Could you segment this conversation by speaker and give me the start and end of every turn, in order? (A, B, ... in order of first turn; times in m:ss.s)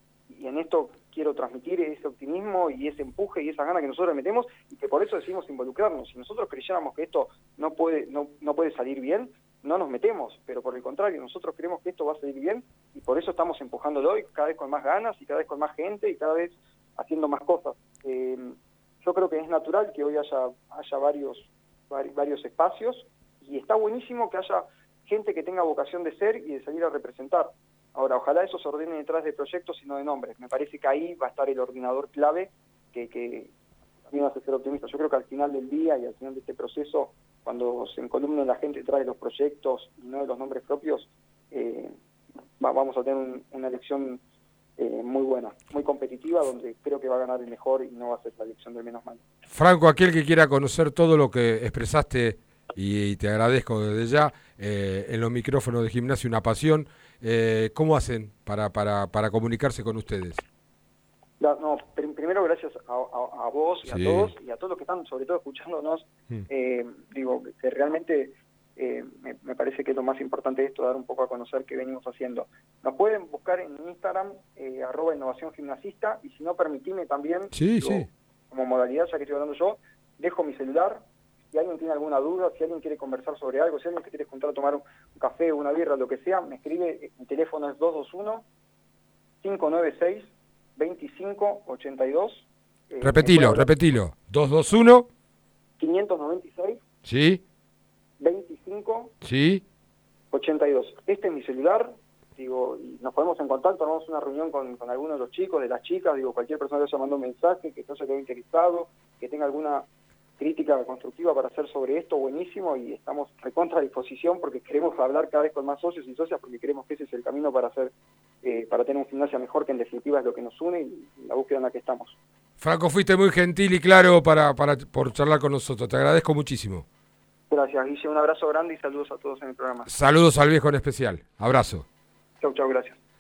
0:00.3-0:33.5 A
0:34.1-0:42.0 A
0:42.6-0:44.2 A
0:44.8-0:49.2 A
0:49.5-1:00.4 B
1:01.4-1:28.4 A
1:03.8-1:04.3 B
1:17.5-1:18.1 B
1:29.4-1:33.7 A
1:33.0-1:35.1 B
1:35.8-1:36.8 A
1:37.0-1:37.4 B
1:38.2-1:39.1 A
1:39.2-1:39.6 B
1:40.3-1:49.9 A
1:50.4-2:02.2 A
2:02.6-2:06.8 B
2:07.5-2:09.9 A
2:09.8-2:11.8 B
2:12.4-2:13.0 A